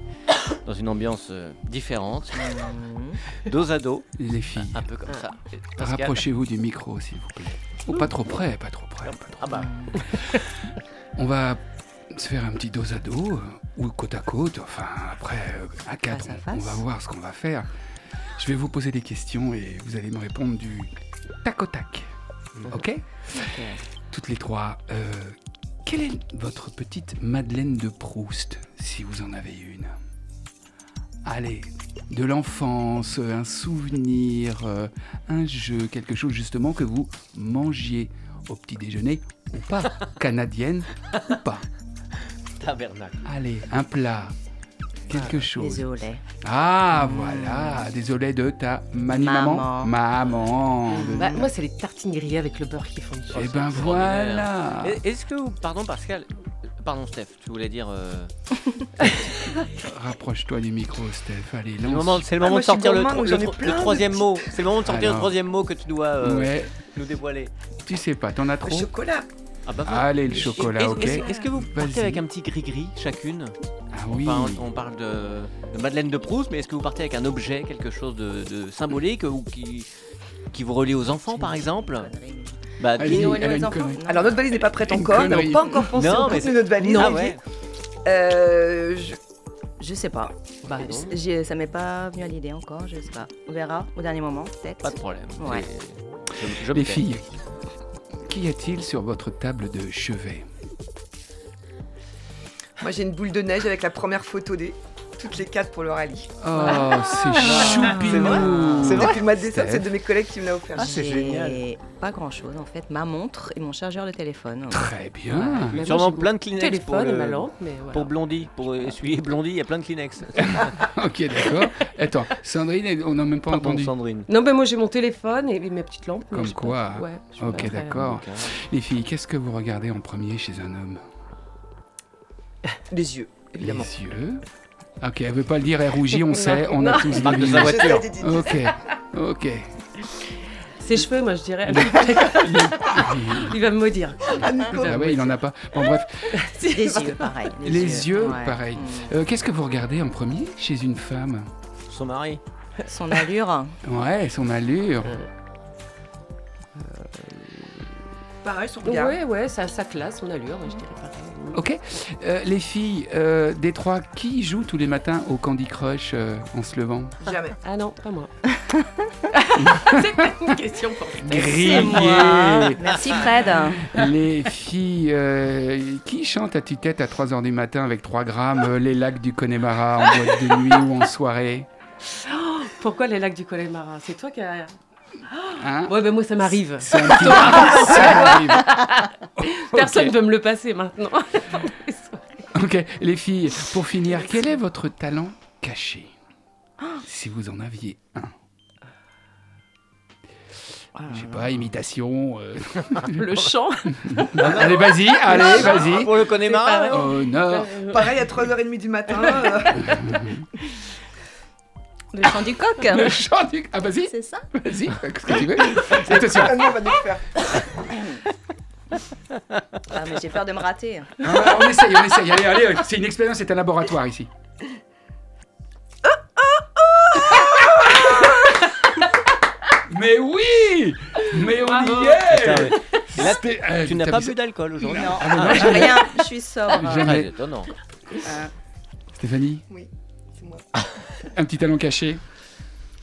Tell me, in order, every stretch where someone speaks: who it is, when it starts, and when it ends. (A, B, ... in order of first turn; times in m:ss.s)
0:00.6-0:02.6 A
0:02.3-0:03.2 B
0:03.4-0:06.2 A
0:04.2-0:04.8 C
0:05.8-0:09.5 C
0:09.0-0:10.0 A
0:09.5-0:10.0 B
0:11.2-0:17.7 C
0:16.1-0:16.8 B
0:18.4-0:20.9 C
0:21.4-0:23.6 C
0:23.4-0:23.8 B
0:24.1-0:29.9 C
0:31.2-0:41.6 C
0:42.6-0:43.2 A
0:43.2-0:44.3 C
0:45.1-0:51.5 C
0:45.1-0:45.4 D
0:45.6-0:46.2 B
0:46.9-0:47.8 B
0:49.1-0:49.9 B
0:50.9-0:53.5 D
0:53.3-0:55.0 C
0:53.3-0:58.3 A
0:59.0-0:59.5 A
0:59.6-1:02.3 C
1:01.8-1:07.5 A
1:02.4-1:04.5 E
1:04.8-1:05.3 C
1:06.2-1:06.7 C
1:07.8-1:08.9 C
1:08.6-1:09.3 E
1:09.6-1:13.5 A
1:09.8-1:12.2 C
1:10.8-1:11.4 E
1:13.9-1:14.6 C
1:14.1-1:19.9 A
1:20.5-1:22.1 A
1:21.3-1:24.5 B
1:22.8-1:23.5 A
1:22.9-1:24.0 C
1:24.0-1:27.4 E
1:24.8-1:25.8 C
1:25.3-1:26.0 B
1:25.9-1:27.4 A
1:26.8-1:27.3 D
1:28.0-1:29.2 E
1:29.8-1:35.6 B
1:30.6-1:31.2 D
1:30.8-1:31.0 A
1:34.8-1:37.1 A
1:36.7-1:37.2 C
1:38.2-1:40.4 C
1:42.8-1:46.4 E
1:46.4-1:49.9 C
1:47.4-1:49.2 A
1:47.8-1:48.3 B
1:48.0-1:50.9 E
1:50.7-1:51.6 A
1:50.7-1:54.9 B
1:54.7-1:55.8 C
1:55.3-1:58.1 D
1:55.8-2:00.9 A
2:00.4-2:03.9 C
2:03.5-2:04.3 A
2:04.3-2:08.0 D
2:06.3-2:11.0 C
2:07.8-2:08.5 A
2:12.9-2:13.9 E
2:13.6-2:14.4 C
2:15.0-2:19.7 C
2:16.1-2:17.4 D
2:17.2-2:18.1 A
2:17.4-2:18.6 E
2:20.8-2:25.3 D
2:21.6-2:23.6 C
2:24.3-2:25.2 E
2:24.8-2:26.4 C
2:26.3-2:27.4 D
2:26.7-2:29.1 B
2:27.6-2:31.5 C
2:31.9-2:32.4 A
2:32.9-2:33.8 B
2:33.8-2:35.2 C
2:36.8-2:38.0 D
2:38.4-2:39.2 E
2:38.8-2:41.6 D
2:41.5-2:47.1 C
2:47.2-2:47.6 E
2:47.6-2:48.3 D
2:49.3-2:52.2 D
2:49.6-2:50.5 C
2:51.2-2:53.0 C
2:51.5-2:53.9 B
2:53.6-3:01.7 C
3:02.1-3:04.8 D
3:05.3-3:12.5 D
3:05.6-3:06.0 C
3:06.6-3:08.8 C
3:09.4-3:10.2 C
3:12.5-3:16.1 C
3:17.0-3:18.3 C
3:21.0-3:21.5 B
3:21.1-3:23.2 C
3:23.0-3:24.6 D
3:24.0-3:26.3 C
3:24.4-3:27.1 A
3:25.3-3:28.3 D
3:26.9-3:27.7 C
3:27.8-3:30.1 E
3:29.2-3:29.9 D
3:29.9-3:30.4 C
3:32.1-3:33.1 B
3:32.8-3:36.7 C
3:34.0-3:34.4 B
3:35.9-3:37.3 E
3:37.9-3:38.2 B
3:39.9-3:41.3 B
3:41.2-3:44.3 C
3:47.7-3:48.4 C
3:49.8-3:57.3 C
3:51.6-3:52.2 D
3:52.3-3:56.0 A
3:54.8-3:57.2 B
3:56.8-3:57.7 A
3:58.2-3:58.5 B
3:59.1-3:59.6 C
3:59.7-4:00.6 E
4:01.2-4:02.2 C